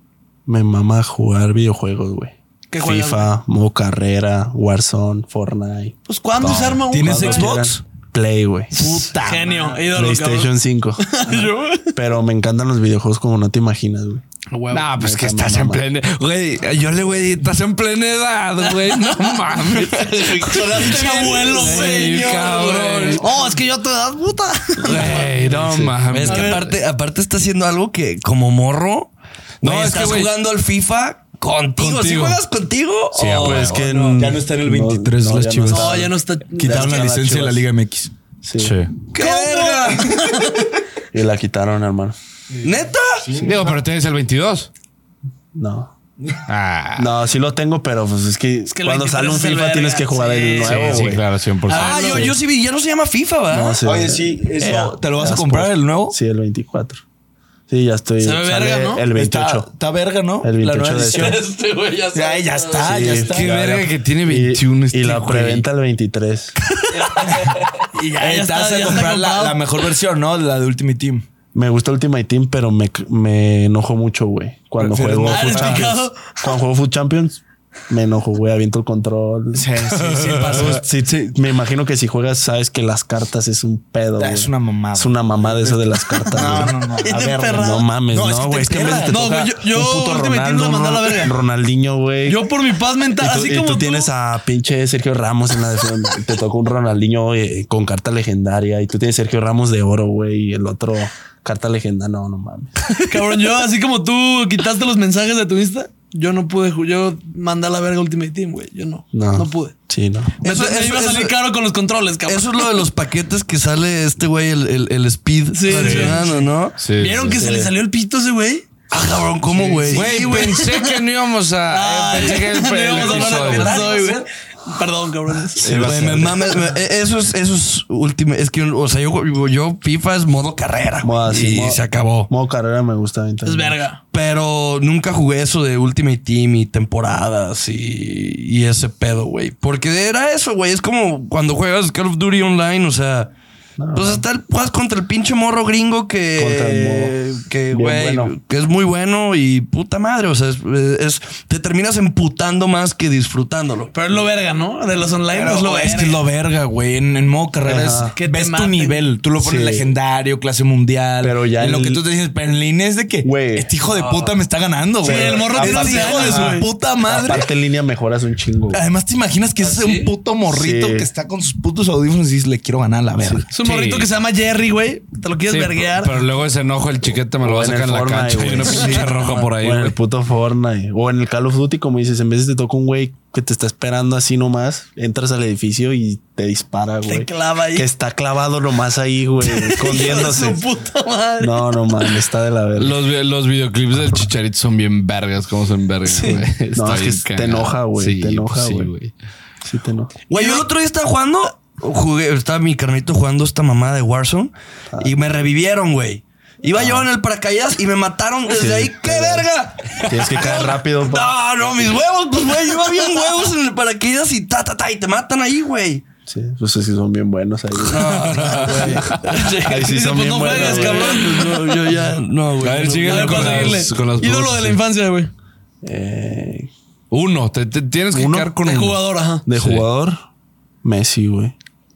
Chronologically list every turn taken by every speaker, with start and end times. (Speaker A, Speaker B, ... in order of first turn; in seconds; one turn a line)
Speaker A: 0.5-8.7
Speaker B: 2.7-3.3
Speaker B: 6.1-7.6
Speaker C: 6.9-7.8
Speaker C: 8.7-9.8
Speaker B: 8.7-10.5
Speaker A: 9.9-14.2
Speaker B: 11.0-12.0
Speaker B: 14.5-14.8
Speaker D: 14.7-23.3
Speaker A: 14.9-15.8
Speaker B: 18.6-19.7
Speaker E: 19.9-23.4
Speaker B: 20.5-25.4
Speaker D: 24.8-26.6
Speaker A: 25.5-26.0
Speaker E: 26.1-29.1
Speaker B: 26.2-26.7
Speaker D: 29.6-30.3
Speaker E: 29.6-33.9
Speaker D: 31.8-32.4
Speaker D: 33.1-34.2
Speaker A: 33.4-37.7
Speaker C: 34.2-38.1
Speaker B: 35.7-37.2
Speaker A: 38.4-38.8
Speaker D: 38.6-38.9
Speaker E: 39.1-40.1
Speaker C: 39.1-40.2
Speaker B: 39.2-40.7
Speaker A: 41.1-42.2
Speaker C: 42.5-43.7
Speaker E: 42.6-43.3
Speaker D: 43.4-44.7
Speaker A: 45.5-45.9
Speaker D: 46.5-47.1
Speaker A: 47.0-51.2
Speaker B: 48.7-51.1
Speaker D: 50.6-52.3
Speaker B: 51.7-52.3
Speaker E: 51.7-53.8
Speaker A: 53.5-57.0
Speaker C: 53.8-56.2
Speaker A: 57.7-59.7
Speaker B: 58.2-59.0
Speaker C: 59.1-61.5
Speaker A: 60.4-61.4
Speaker E: 61.1-63.1
Speaker C: 62.1-63.8
Speaker A: 62.8-66.5
Speaker D: 63.3-65.7
Speaker B: 67.0-69.6
Speaker E: 67.4-67.7
Speaker C: 68.2-71.3
Speaker A: 71.5-79.7
Speaker C: 74.8-75.9
Speaker B: 75.2-76.6
Speaker C: 79.5-80.8
Speaker D: 80.3-80.7
Speaker A: 80.5-92.5
Speaker C: 84.2-89.3
Speaker B: 87.0-87.9
Speaker B: 89.1-91.3
Speaker B: 92.3-94.1
Speaker A: 93.2-102.9
Speaker B: 103.0-109.8
Speaker A: 109.1-110.3
Speaker B: 110.4-112.7
Speaker E: 110.4-111.3
Speaker E: 112.2-116.8
Speaker B: 115.5-116.3
Speaker D: 116.8-117.5
Speaker B: 117.0-118.7
Speaker A: 117.4-117.7
Speaker E: 118.9-120.7
Speaker D: 119.7-123.9
Speaker B: 119.9-121.0
Speaker B: 121.7-125.7
Speaker C: 122.9-124.3
Speaker E: 123.5-123.8
Speaker D: 125.6-126.5
Speaker A: 125.6-126.4
Speaker E: 125.7-132.3
Speaker A: 131.0-133.8
Speaker B: 133.4-134.0
Speaker E: 134.1-143.3
Speaker A: 143.8-144.2
Speaker E: 143.9-153.9
Speaker A: 146.4-147.2
Speaker A: 147.7-148.3
Speaker B: 153.9-156.2
Speaker C: 155.3-167.5
Speaker A: 157.6-158.2
Speaker B: 158.2-159.0
Speaker A: 159.4-159.9
Speaker A: 161.2-162.0
Speaker A: 163.2-163.7
Speaker E: 163.8-164.4
Speaker A: 165.0-168.8
Speaker B: 165.0-166.7
Speaker C: 168.7-173.5
Speaker E: 169.6-170.1
Speaker A: 170.5-171.1
Speaker A: 173.2-173.5
Speaker B: 173.5-176.2
Speaker D: 173.6-174.1
Speaker D: 175.5-179.9
Speaker A: 177.4-190.6
Speaker B: 187.1-187.9
Speaker B: 189.4-192.2
Speaker A: 191.4-193.0
Speaker D: 192.8-199.1
Speaker B: 196.1-196.4
Speaker A: 196.2-198.9
Speaker A: 199.6-200.1
Speaker E: 200.3-216.0
Speaker B: 200.3-200.7
Speaker A: 206.7-207.1
Speaker A: 208.5-211.9
Speaker A: 216.3-222.0
Speaker E: 217.8-223.8
Speaker D: 217.9-219.3
Speaker B: 219.8-221.6
Speaker D: 222.6-224.8
Speaker B: 223.0-225.3
Speaker A: 225.8-226.7
Speaker D: 227.1-228.9
Speaker A: 228.1-228.9
Speaker B: 228.6-229.4
Speaker A: 229.5-230.2
Speaker D: 229.6-229.8
Speaker A: 230.8-231.6